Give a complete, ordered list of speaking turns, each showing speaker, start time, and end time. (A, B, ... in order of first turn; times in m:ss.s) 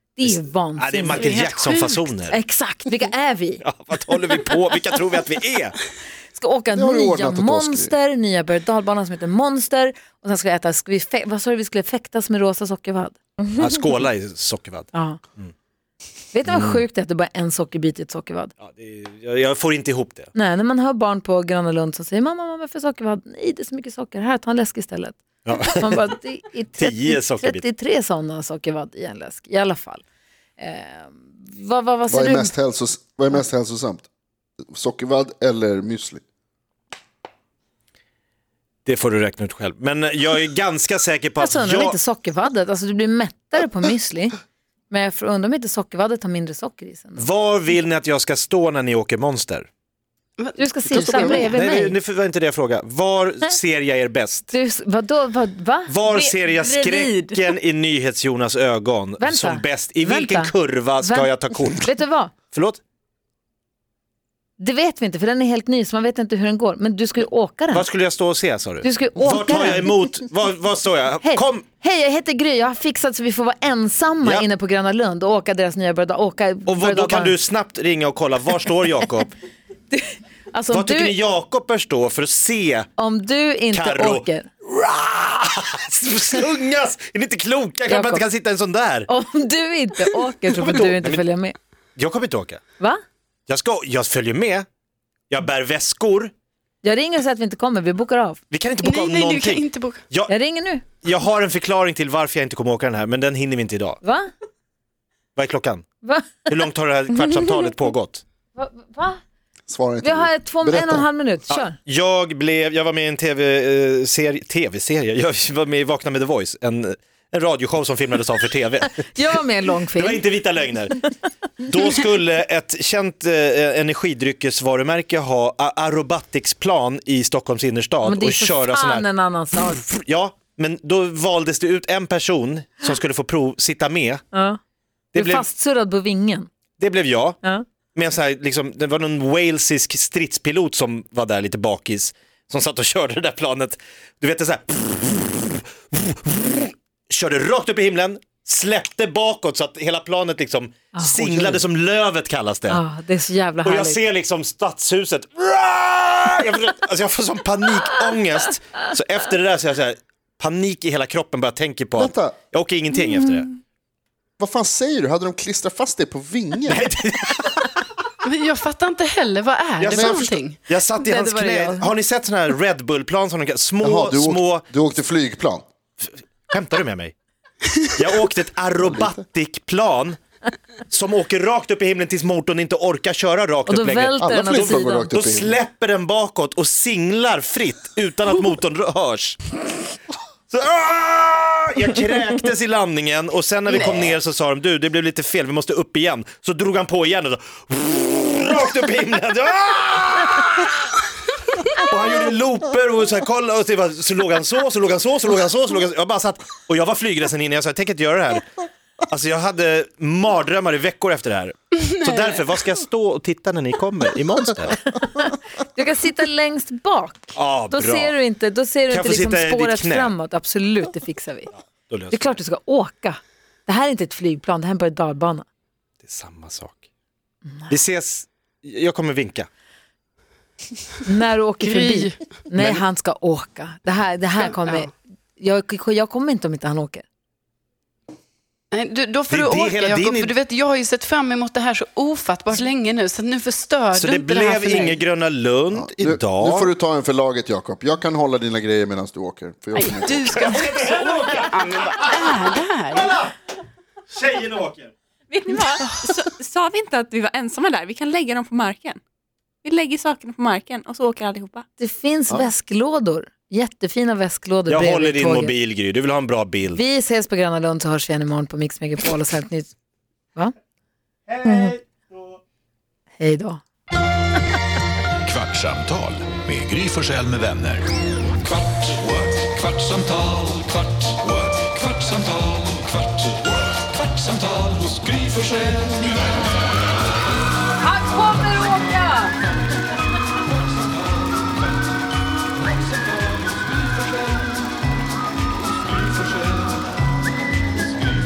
0:00.2-0:01.6 A
0:00.2-0:02.4 B
0:01.1-0:02.0 C
0:02.3-0:03.6 A
0:03.6-0:05.8 B
0:06.3-0:13.2 A
0:06.7-0:07.9 D
0:13.6-0:15.5 B
0:14.9-0:15.2 A
0:16.3-0:18.5 A
0:16.5-0:16.8 B
0:18.6-0:20.3 B
0:20.3-0:30.0 A
0:25.4-0:26.0 B
0:26.8-0:27.6 B
0:30.6-0:32.5 A
0:32.1-0:34.1 D
0:34.7-0:36.2 D
0:38.8-0:42.0 B
0:41.4-0:44.3 A
0:44.9-0:47.3 A
0:47.2-0:49.7 B
0:50.4-0:51.6 C
0:50.6-0:51.9 A
0:50.9-0:51.6 D
0:51.3-0:54.5 B
0:54.5-0:57.1 A
0:55.9-1:01.9 B
0:56.7-0:57.1 E
0:59.2-1:02.3 A
1:02.5-1:02.8 B
1:04.6-1:07.8 A
1:07.7-1:11.6 B
1:08.8-1:09.9 A
1:11.2-1:17.4 A
1:16.7-1:19.3 B
1:19.9-1:21.2 A
1:20.7-1:22.9 B
1:23.0-1:24.5 A
1:23.7-1:29.1 B
1:27.9-1:28.2 A
1:29.1-1:31.6 A
1:30.5-1:31.2 B
1:32.0-1:32.6 B
1:33.5-1:34.6 B
1:35.3-1:36.3 B
1:36.8-1:38.4 A
1:38.5-1:40.3 B
1:38.8-1:40.0 C
1:40.3-1:40.8 A
1:41.0-1:44.0 B
1:44.0-1:44.3 A
1:45.4-1:45.8 B
1:46.0-1:46.5 A
1:46.5-1:48.2 B
1:48.6-1:49.2 A
1:49.7-1:51.1 D
1:50.0-1:51.8 A
1:51.5-1:59.0 B
1:59.0-2:00.2 A
2:00.0-2:01.1 B
2:01.6-2:09.0 B
2:08.0-2:09.9 A
2:09.7-2:14.2 B
2:14.3-2:14.6 A
2:15.1-2:15.4 B
2:15.1-2:16.5 A
2:16.8-2:17.4 B
2:17.9-2:32.8 B
2:30.9-2:31.6 A
2:32.7-2:34.0 A
2:33.6-2:43.5 B
2:42.0-2:42.4 D
2:44.4-2:46.8 D
2:46.7-2:47.8 B
2:48.2-2:50.6 C
2:49.8-2:54.6 B
2:49.9-2:50.2 D
2:51.0-2:51.9 A
2:53.8-2:55.6 D
2:56.0-2:57.1 B
2:57.9-3:00.2 B
2:58.8-2:59.1 D
3:00.9-3:09.4 B
3:03.7-3:05.1 A
3:04.2-3:05.6 D
3:10.5-3:21.0 B
3:21.6-3:28.5 B
3:29.1-3:34.9 B
3:34.9-3:41.5 A
3:37.3-3:38.1 B
3:38.9-3:40.1 B
3:41.9-3:42.4 B
3:42.1-3:45.4 A
3:46.0-3:46.8 B
3:47.4-3:47.7 A
3:47.7-3:49.5 B
3:51.0-3:57.0 A
3:51.6-3:52.2 C
3:52.6-3:52.8 B
3:54.4-3:54.9 C
3:58.7-4:05.0 C
3:59.3-4:00.3 B
4:03.9-4:06.7 B
4:05.7-4:10.2 D
4:09.8-4:13.2 C
4:10.3-4:13.3 B
4:14.1-4:14.9 B
4:15.3-4:19.0 E
4:19.6-4:21.6 E
4:21.8-4:25.6 A
4:24.7-4:26.8 B
4:26.7-4:29.7 A
4:31.3-4:32.4 B
4:31.4-4:31.7 A
4:33.2-4:33.6 A
4:35.2-4:37.9 F
4:38.4-4:46.1 F
4:47.8-4:49.3 A